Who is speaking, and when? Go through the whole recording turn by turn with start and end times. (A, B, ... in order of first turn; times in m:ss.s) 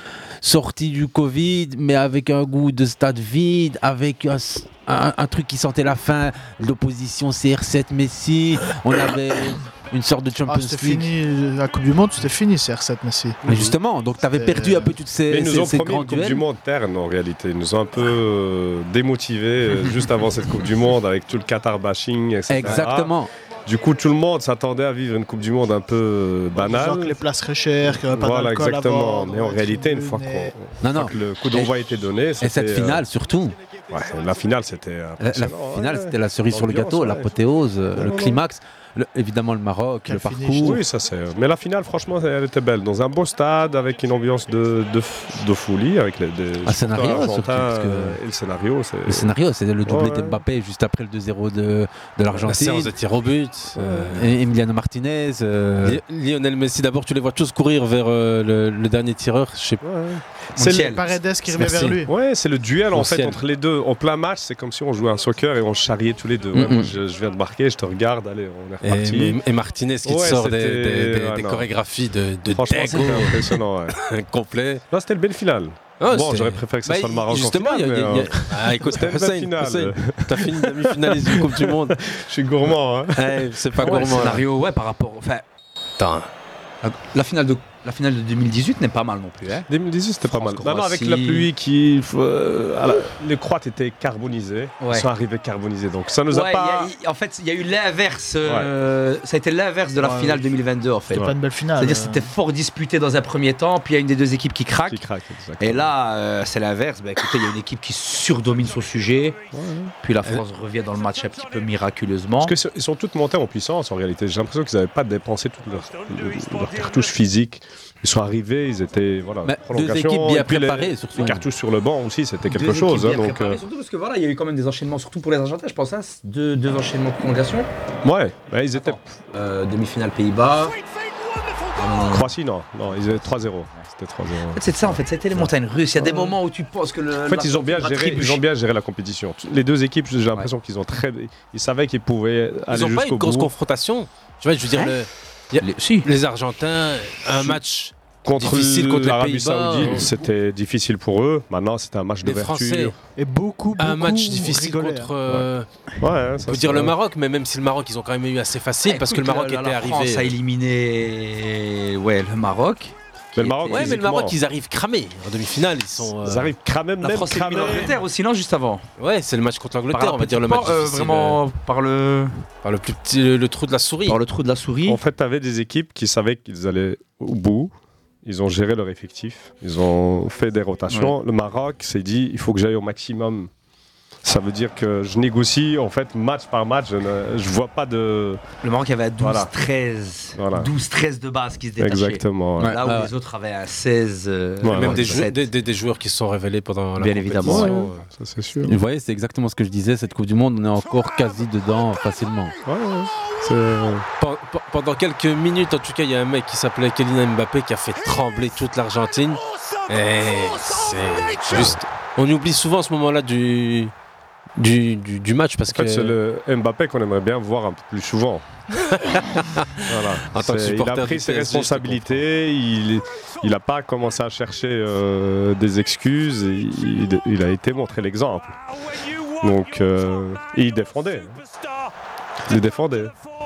0:00.4-0:11.1 A
0:10.4-0:13.4 B
0:13.5-0:16.4 A
0:13.5-0:13.7 C
0:14.3-0:15.0 B
0:15.3-0:27.2 C
0:22.5-0:23.3 A
0:26.5-0:30.5 B
0:28.0-0:33.0 C
0:30.8-0:31.8 A
0:32.4-0:33.6 A
0:33.9-0:37.3 C
0:35.2-0:40.8 A
0:38.0-0:38.4 C
0:40.0-0:40.8 B
0:40.6-0:49.3 C
0:46.6-0:48.2 A
0:49.1-0:52.9 A
0:49.8-0:50.4 C
0:52.4-0:54.3 D
0:53.7-0:54.2 C
0:54.1-0:56.0 A
0:55.8-0:59.8 D
0:59.8-1:01.0 C
1:00.6-1:01.1 E
1:00.7-1:02.1 B
1:01.6-1:09.4 C
1:02.9-1:03.4 D
1:06.5-1:06.9 A
1:08.8-1:14.8 D
1:10.0-1:11.7 C
1:12.5-1:14.0 C
1:14.9-1:24.1 C
1:16.0-1:22.0 D
1:23.1-1:24.4 D
1:23.8-1:25.4 E
1:26.0-1:26.3 D
1:26.8-1:29.7 E
1:29.7-1:36.9 C
1:30.3-1:31.5 E
1:34.8-1:35.1 E
1:36.3-1:45.0 E
1:39.9-1:40.4 B
1:41.1-1:42.3 B
1:44.9-1:45.9 C
1:45.6-1:49.4 E
1:49.5-1:49.9 C
1:50.0-1:52.5 E
1:52.4-2:03.6 C
1:59.4-2:01.4 A
2:02.4-2:07.7 E
2:08.0-2:09.0 C
2:08.7-2:10.8 E
2:11.7-2:12.3 E
2:12.1-2:16.4 C
2:12.9-2:13.4 E
2:14.5-2:18.4 E
2:17.3-2:23.5 C
2:22.7-2:30.1 D
2:25.6-2:26.1 E
2:28.2-2:33.0 C
2:32.2-2:33.0 D
2:33.2-2:35.1 B
2:33.8-2:35.7 D
2:36.0-2:36.9 C
2:36.4-2:40.3 D
2:38.8-2:44.0 E
2:43.3-2:44.4 C
2:43.7-2:46.5 D
2:46.1-2:48.0 C
2:47.0-2:48.8 E
2:49.0-2:51.4 D
2:49.9-2:52.4 E
2:52.6-2:54.2 D
2:54.1-2:55.0 E
2:54.8-2:57.7 C
2:58.2-3:03.5 C
3:04.2-3:08.4 C
3:08.6-3:15.5 E
3:09.2-3:09.5 C
3:10.4-3:10.7 C
3:11.8-3:12.8 C
3:12.6-3:13.1 A
3:14.6-3:15.2 C
3:14.7-3:17.9 D
3:17.0-3:17.8 E
3:17.4-3:18.8 C
3:18.6-3:22.6 A
3:22.6-3:24.0 C
3:24.2-3:33.9 D
3:31.5-3:31.8 C
3:34.6-3:36.2 D
3:35.7-3:38.4 C
3:38.8-3:42.2 D
3:39.8-3:48.6 C
3:49.4-3:51.4 C
3:52.5-3:53.1 C